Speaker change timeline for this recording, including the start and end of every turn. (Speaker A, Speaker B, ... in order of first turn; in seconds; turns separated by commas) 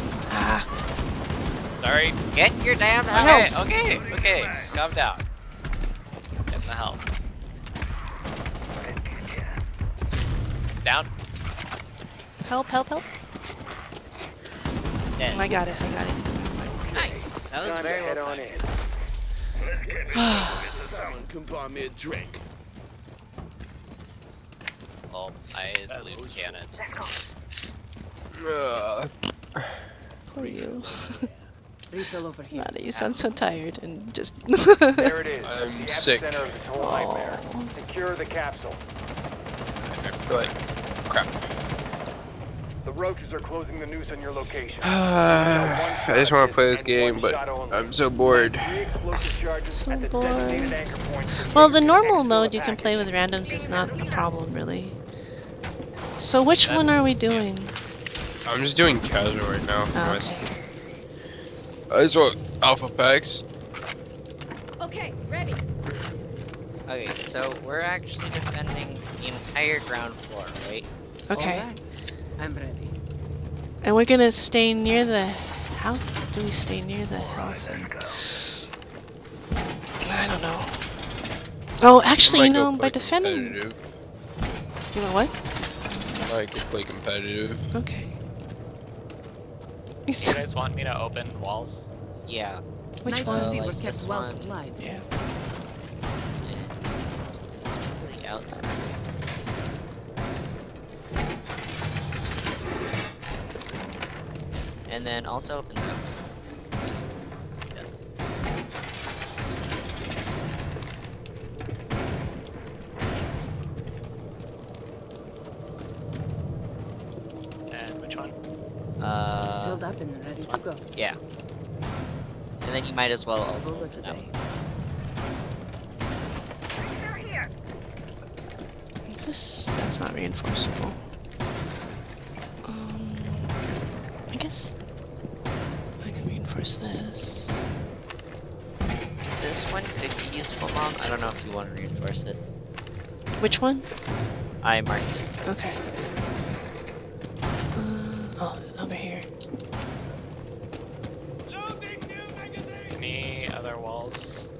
Speaker A: 0.3-0.7, Speaker B: 1.8-2.2, Speaker C: 2.3-3.6, Speaker B: 3.1-5.2, Speaker A: 3.1-3.5, Speaker B: 6.5-7.0, Speaker B: 10.8-11.1, Speaker A: 12.4-13.1, Speaker C: 15.2-15.5, Speaker A: 15.3-17.1, Speaker D: 16.9-18.7, Speaker E: 16.9-17.3, Speaker C: 17.0-18.5, Speaker F: 19.6-22.4, Speaker A: 20.1-20.8, Speaker B: 25.1-26.8, Speaker F: 25.9-26.8, Speaker E: 26.8-27.1, Speaker G: 28.4-29.8, Speaker A: 30.3-31.3, Speaker F: 30.3-31.5, Speaker H: 31.9-32.7, Speaker A: 32.5-35.2, Speaker D: 35.0-38.8, Speaker G: 35.4-36.7, Speaker A: 36.8-37.7, Speaker B: 39.8-40.5, Speaker D: 42.8-53.1, Speaker G: 44.8-49.0, Speaker A: 49.7-50.8, Speaker A: 51.5-55.0, Speaker E: 53.4-54.4, Speaker A: 56.2-57.7, Speaker B: 56.6-57.5, Speaker G: 58.5-60.5, Speaker A: 59.9-60.4, Speaker G: 61.9-63.4, Speaker H: 64.8-65.6, Speaker C: 66.9-70.9, Speaker A: 71.3-71.7, Speaker H: 71.3-71.8, Speaker H: 72.4-72.9, Speaker A: 73.8-78.4, Speaker A: 80.0-80.8, Speaker A: 81.8-83.6, Speaker G: 82.2-83.8, Speaker A: 84.9-85.3, Speaker G: 86.2-87.7, Speaker A: 87.7-88.1, Speaker A: 90.1-90.4, Speaker B: 90.2-91.9, Speaker C: 92.2-92.6, Speaker A: 93.0-93.6, Speaker H: 93.0-94.8, Speaker C: 93.1-94.5, Speaker A: 94.8-95.0, Speaker C: 96.4-96.8, Speaker C: 97.4-99.0, Speaker C: 104.9-106.2, Speaker B: 117.7-118.3, Speaker C: 119.0-119.8, Speaker H: 119.6-120.8, Speaker B: 120.3-120.6, Speaker C: 122.6-124.3, Speaker H: 123.6-124.4, Speaker E: 126.8-127.5, Speaker A: 129.1-131.0, Speaker A: 132.6-133.5, Speaker A: 134.3-134.8, Speaker A: 136.0-137.6, Speaker C: 139.4-142.4, Speaker A: 143.4-143.9, Speaker C: 144.6-145.3, Speaker A: 145.4-145.8, Speaker A: 147.7-149.3, Speaker B: 152.9-154.5